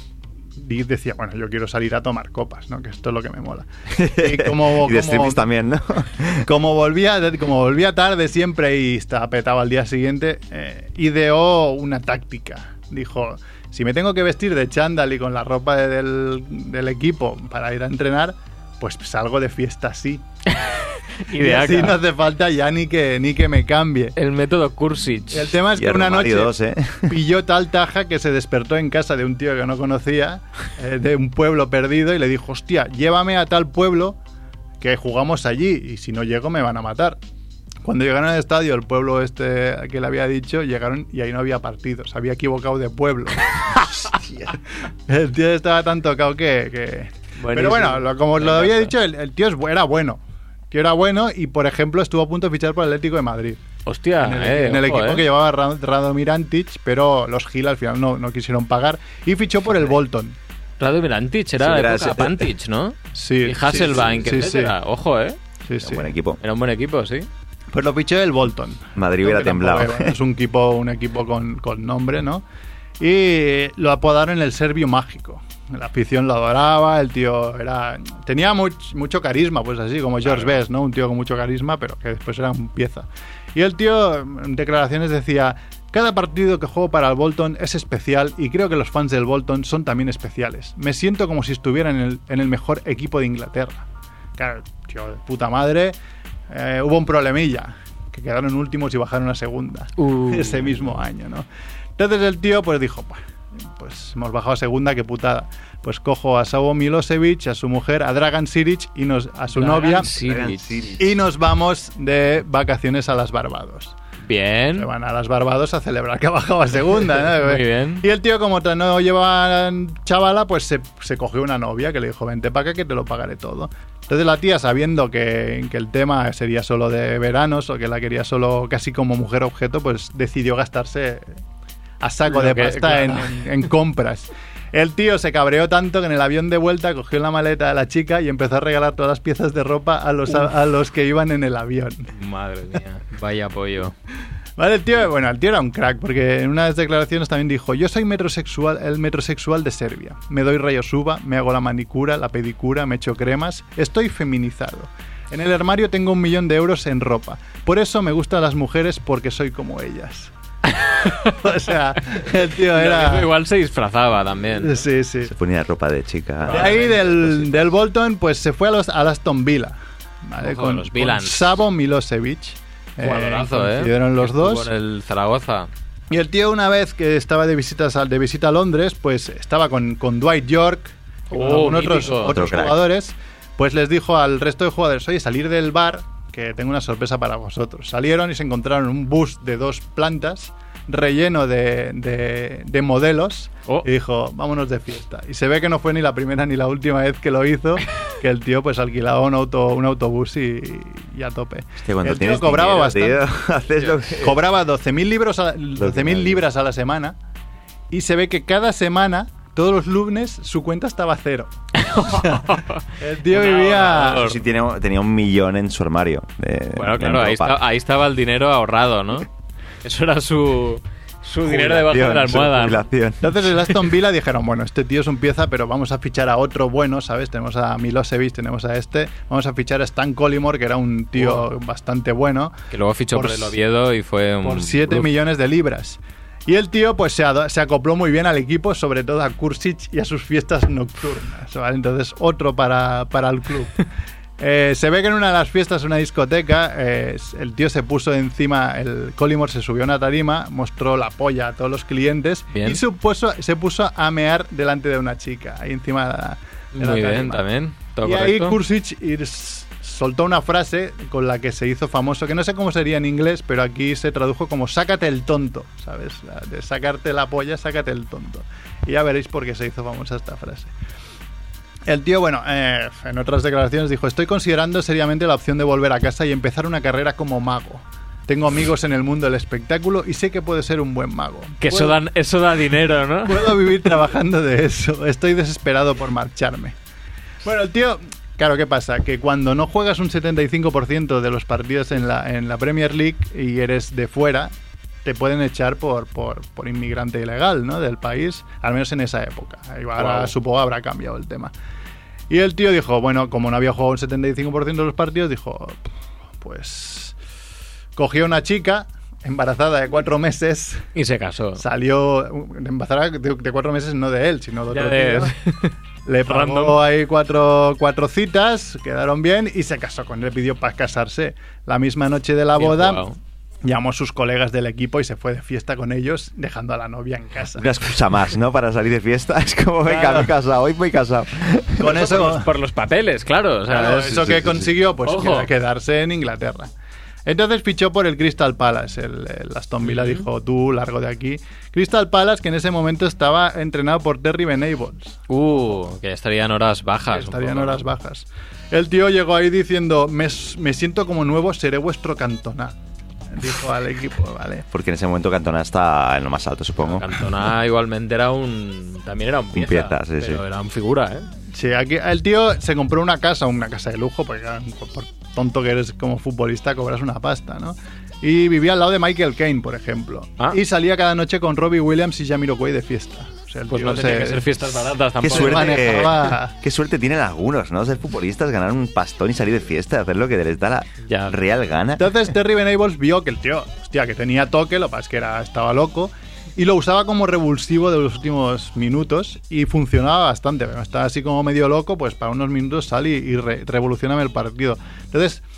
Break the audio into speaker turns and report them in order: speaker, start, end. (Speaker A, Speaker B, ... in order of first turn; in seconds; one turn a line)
Speaker A: 0.6-5.5
Speaker B: 3.9-6.5
Speaker A: 6.4-20.2
Speaker C: 20.5-22.0
Speaker A: 21.4-24.1
Speaker C: 24.2-25.5
Speaker A: 25.3-26.6
Speaker B: 25.8-27.2
Speaker A: 27.1-34.2
Speaker A: 34.8-37.2
Speaker A: 37.8-44.5
Speaker A: 45.1-53.6
Speaker C: 47.4-48.9
Speaker C: 53.9-55.2
Speaker A: 54.2-60.4
Speaker C: 60.8-65.4
Speaker B: 61.6-62.5
Speaker A: 63.1-64.7
Speaker A: 65.7-66.1
Speaker B: 65.8-66.4
Speaker C: 66.4-67.3
Speaker A: 67.7-72.4
Speaker B: 69.0-70.2
Speaker A: 73.0-93.9
Speaker A: 94.4-96.0
Speaker A: 96.5-101.5
Speaker C: 100.0-100.9
Speaker A: 102.0-103.2
Speaker A: 103.8-110.1
Speaker C: 109.5-110.9
Speaker B: 110.1-111.0
Speaker A: 111.0-113.9
Speaker C: 114.2-114.9
Speaker A: 114.8-131.3
Speaker C: 117.3-118.0
Speaker A: 132.0-142.1
Speaker C: 132.3-133.4
Speaker C: 142.2-143.9
Speaker A: 144.6-160.3
Speaker C: 160.8-161.5
Speaker A: 161.3-163.3
Speaker C: 162.7-164.8
Speaker A: 164.6-165.3
Speaker B: 165.2-166.8
Speaker C: 166.4-167.5
Speaker A: 166.5-174.7
Speaker C: 170.4-171.6
Speaker C: 173.0-175.7
Speaker A: 176.1-203.2
Speaker C: 181.3-182.4
Speaker B: 182.2-182.8
Speaker B: 201.8-204.4
Speaker A: 204.2-207.2
Speaker B: 205.8-206.4
Speaker A: 207.9-212.4
Speaker C: 211.8-214.4
Speaker A: 213.0-214.2
Speaker B: 213.9-217.6
Speaker C: 216.8-219.3
Speaker C: 219.8-222.8
Speaker B: 221.4-223.2
Speaker A: 223.2-232.6
Speaker C: 231.2-231.4
Speaker C: 232.7-235.1
Speaker A: 233.1-233.6
Speaker A: 234.4-243.8
Speaker A: 244.4-257.4
Speaker C: 252.5-252.8
Speaker C: 256.8-258.6
Speaker A: 258.0-270.7
Speaker A: 271.9-282.0
Speaker C: 281.6-283.6
Speaker A: 283.3-286.8
Speaker A: 287.4-294.5
Speaker A: 295.1-301.5
Speaker C: 300.0-300.3
Speaker A: 302.3-305.8
Speaker A: 306.4-307.1
Speaker A: 308.0-310.9
Speaker C: 311.0-311.6
Speaker A: 311.6-315.3
Speaker C: 314.7-315.7
Speaker A: 316.1-323.0
Speaker C: 316.3-316.8
Speaker C: 322.6-323.2
Speaker A: 323.6-327.8
Speaker B: 327.6-332.1
Speaker A: 329.9-330.3
Speaker A: 331.8-332.5
Speaker C: 331.9-334.4
Speaker A: 333.7-336.7
Speaker B: 334.1-334.7
Speaker C: 335.1-335.5
Speaker A: 337.3-345.2
Speaker C: 339.8-340.2
Speaker C: 345.3-347.8
Speaker A: 347.1-352.8
Speaker A: 353.3-354.6
Speaker B: 354.7-357.2
Speaker C: 356.8-361.3
Speaker B: 359.5-360.4
Speaker A: 361.5-376.6
Speaker C: 373.7-375.8
Speaker B: 375.2-382.2
Speaker C: 381.1-381.4
Speaker A: 382.0-395.4